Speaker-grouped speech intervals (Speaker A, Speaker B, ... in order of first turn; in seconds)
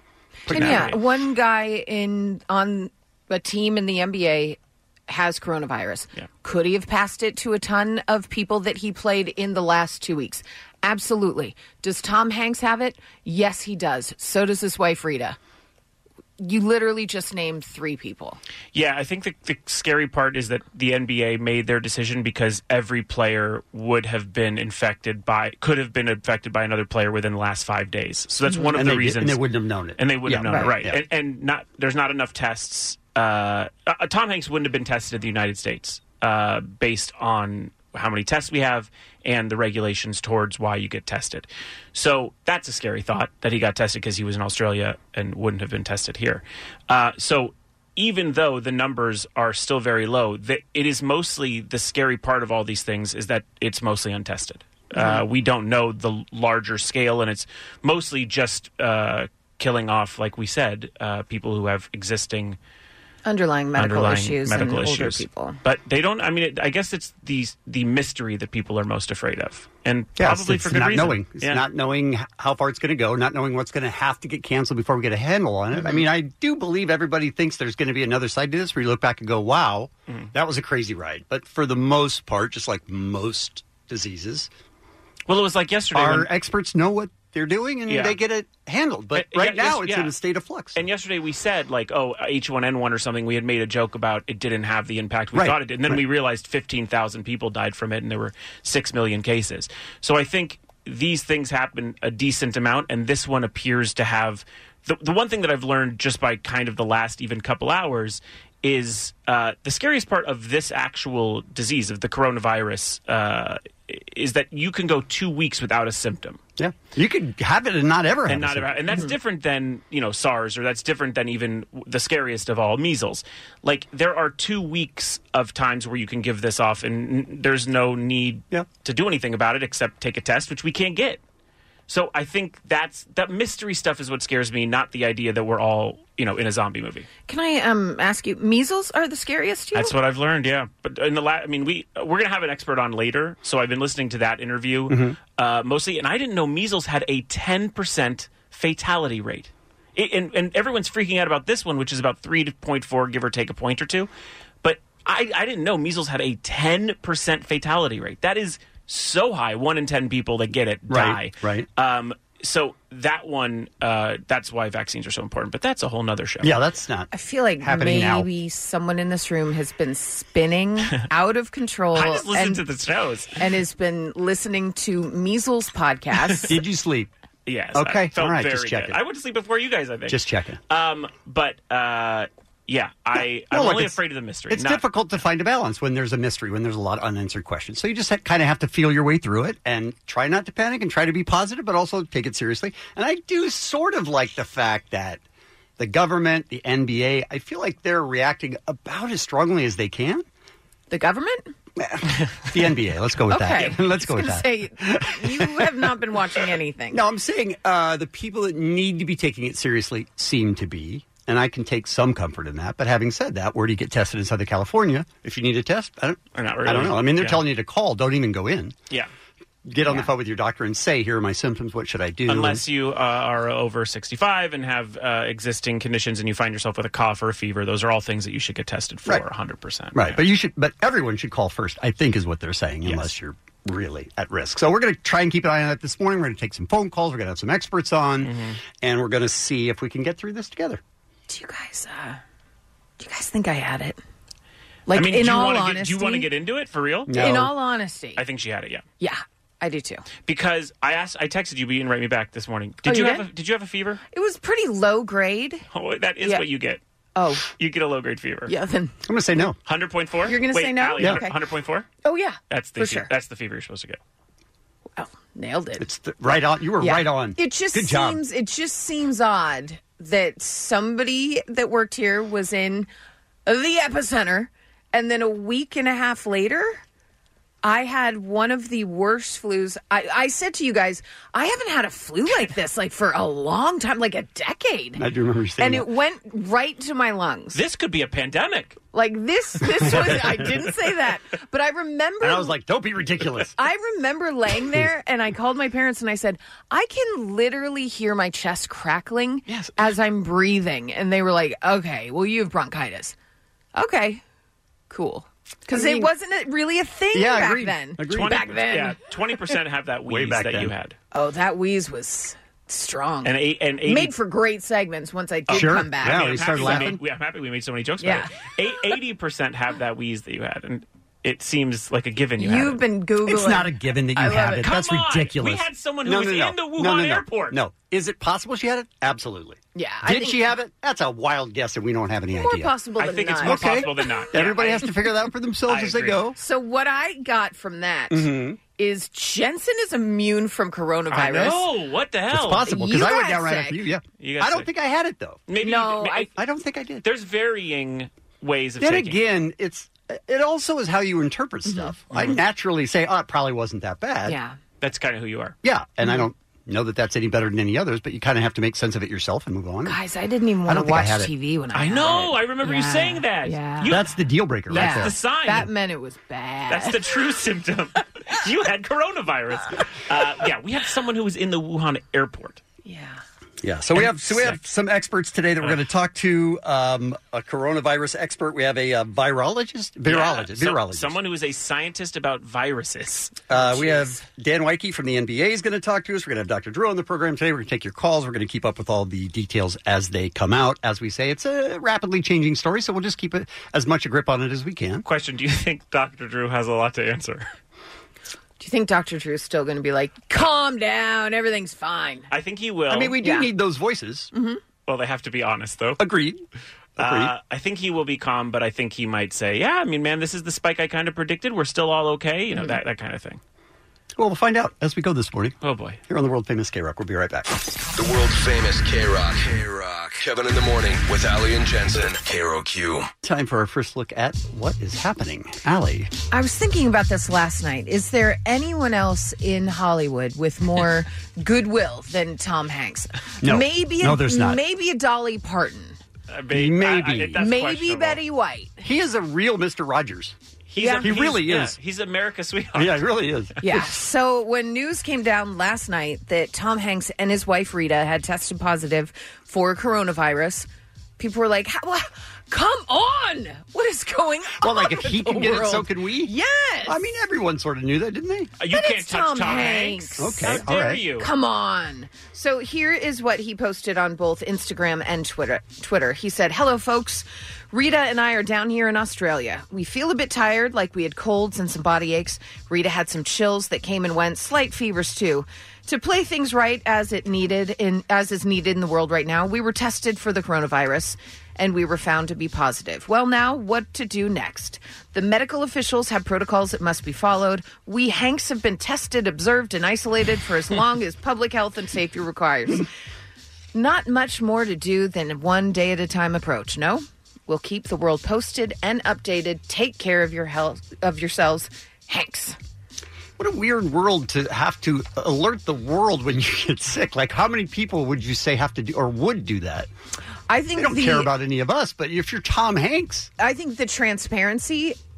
Speaker A: 0.5-1.0, 28.7-31.0, 70.2-84.5, 85.9-90.9, 95.3-96.0, 116.6-118.8, 144.9-145.2, 160.9-161.7, 166.4-167.1, 167.6-168.3, 176.5-177.1, 177.7-179.0, 180.1-180.6, 183.5-184.0, 184.5-195.2, 195.8-200.2, 201.8-205.8, 206.9-218.8, 219.7-222.6, 229.9-240.8, 247.1-247.5, 259.1-259.6, 261.0-261.2, 265.8-268.2, 285.0-285.9, 289.8-290.5, 292.2-293.5, 299.5-299.9, 305.7-306.1, 307.1-308.5, 310.1-310.7, 315.5-317.0, 323.2-332.7, 333.4-336.4, 338.1-338.6, 342.3-345.4, 346.4-347.0, 348.8-354.4, 355.6-360.0, 360.6-361.3, 363.9-365.1, 373.6-381.2, 383.5-395.0, 402.9-404.3, 406.0-406.4, 407.0-407.3, 414.1-415.5, 416.1-417.5, 423.2-426.1, 433.4-434.6, 436.5-437.5, 438.8-440.4, 441.0-441.8, 442.8-443.5, 454.6-456.3, 456.9-458.5, 460.2-461.0, 503.4-509.9, 510.8-513.3
Speaker B: 0.5-4.6, 5.1-15.4, 16.4-18.4, 54.9-55.2, 63.2-65.6, 137.3-139.9, 167.1-172.6, 173.4-176.5, 200.9-201.5, 203.3-207.0, 241.3-242.2, 243.0-244.0, 244.9-246.3, 247.1-248.2, 249.0-250.1, 252.8-253.2, 254.1-255.6, 257.2-257.5, 258.5-258.9, 260.2-261.4, 262.0-263.1, 265.0-265.9, 266.8-272.9, 273.5-276.8, 277.6-285.0, 285.6-287.6, 288.9-292.5, 293.6-303.1, 303.8-304.2, 304.9-309.0, 311.1-313.3, 313.8-316.9, 318.0-318.3, 322.4-324.7, 329.8-330.5, 332.3-334.0, 336.4-341.6, 342.6-343.8, 345.6-346.3, 351.6-351.9, 354.2-354.6, 359.9-364.0, 364.7-367.0, 372.8-373.2, 398.6-402.3, 403.2-403.5, 404.3-404.6, 426.3-436.0, 437.4-438.8, 440.8-441.2, 443.6-450.7, 451.2-457.0, 458.7-460.6, 461.2-492.9, 493.7-502.6, 510.5-511.3, 513.4-515.0
Speaker C: 0.5-1.0, 18.7-29.4, 30.0-62.6, 63.8-71.6, 85.3-86.3, 87.9-88.2, 89.2-90.1, 90.8-116.4, 118.3-131.2, 131.9-137.1, 139.7-154.1, 154.6-166.6, 171.9-173.3, 177.5-184.8, 216.3-217.4, 222.3-230.2, 232.8-233.1, 238.2-238.6, 244.9-247.2, 248.2-248.8, 250.2-254.0, 255.7-256.8, 257.6-258.5, 259.6-261.9, 262.5-264.0, 287.5-288.8, 308.1-311.0, 313.2-314.1, 315.5-322.8, 324.6-327.6, 333.0-335.0, 335.7-336.2, 341.1-342.6, 344.2-344.7, 345.5-346.3, 347.0-349.2, 352.1-352.4, 354.8-355.6, 361.8-364.1, 364.7-365.7, 366.7-372.6, 374.0-374.6, 380.1-384.0, 395.1-397.5, 402.3-403.2, 404.9-406.0, 407.0-413.4, 415.6-416.0, 436.3-438.2, 440.7-443.1, 458.6-461.3
Speaker D: 418.0-423.1